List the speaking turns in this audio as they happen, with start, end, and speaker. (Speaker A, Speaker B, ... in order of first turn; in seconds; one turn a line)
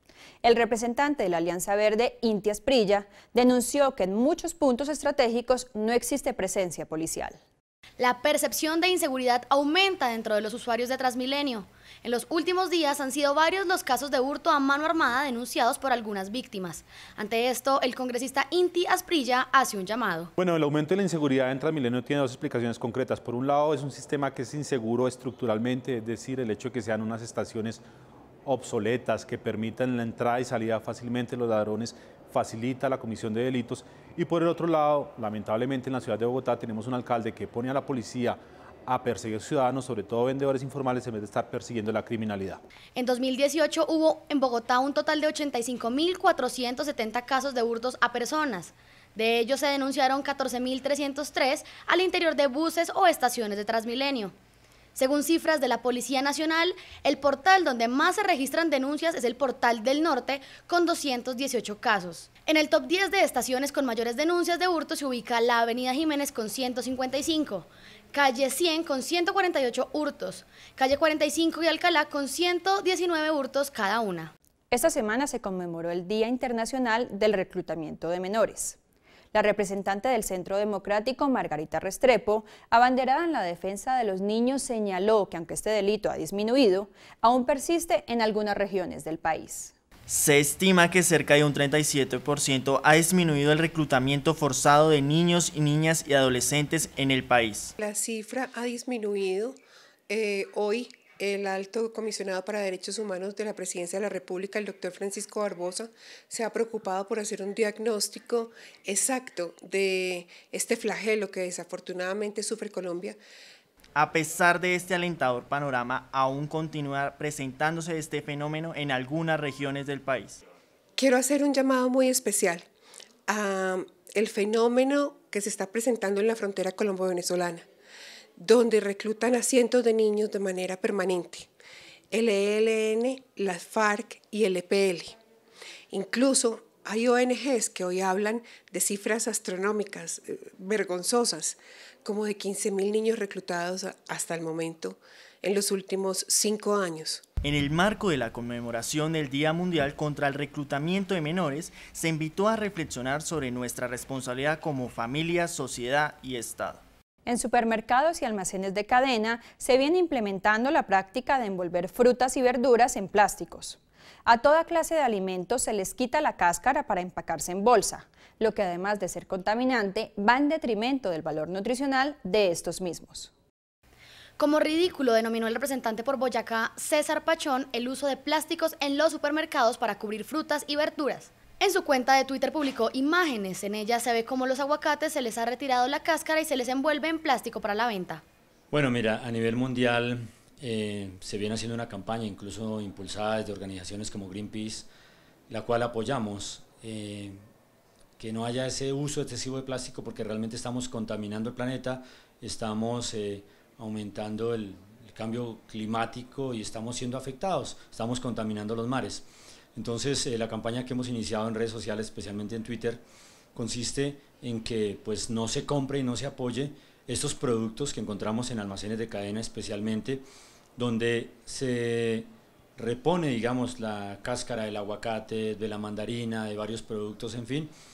Speaker A: 0.4-7.4
Speaker B: 8.0-20.3
Speaker C: 20.4-27.8
Speaker C: 28.4-42.6
Speaker B: 43.0-54.3
Speaker B: 54.9-74.3
Speaker A: 74.7-78.8
Speaker A: 79.3-89.7
Speaker D: 90.1-97.7
Speaker E: 97.8-99.6
Speaker E: 100.1-113.2
Speaker D: 114.0-120.4
Speaker E: 121.0-122.7
Speaker E: 123.3-127.6
Speaker E: 128.4-131.5
Speaker E: 132.1-135.1
Speaker E: 135.9-147.2
Speaker D: 147.4-156.8
Speaker A: 157.2-173.3
Speaker B: 174.4-188.2
Speaker F: 188.7-194.9
Speaker F: 195.5-197.4
Speaker F: 198.2-213.0
Speaker F: 213.5-220.2
Speaker F: 220.8-227.7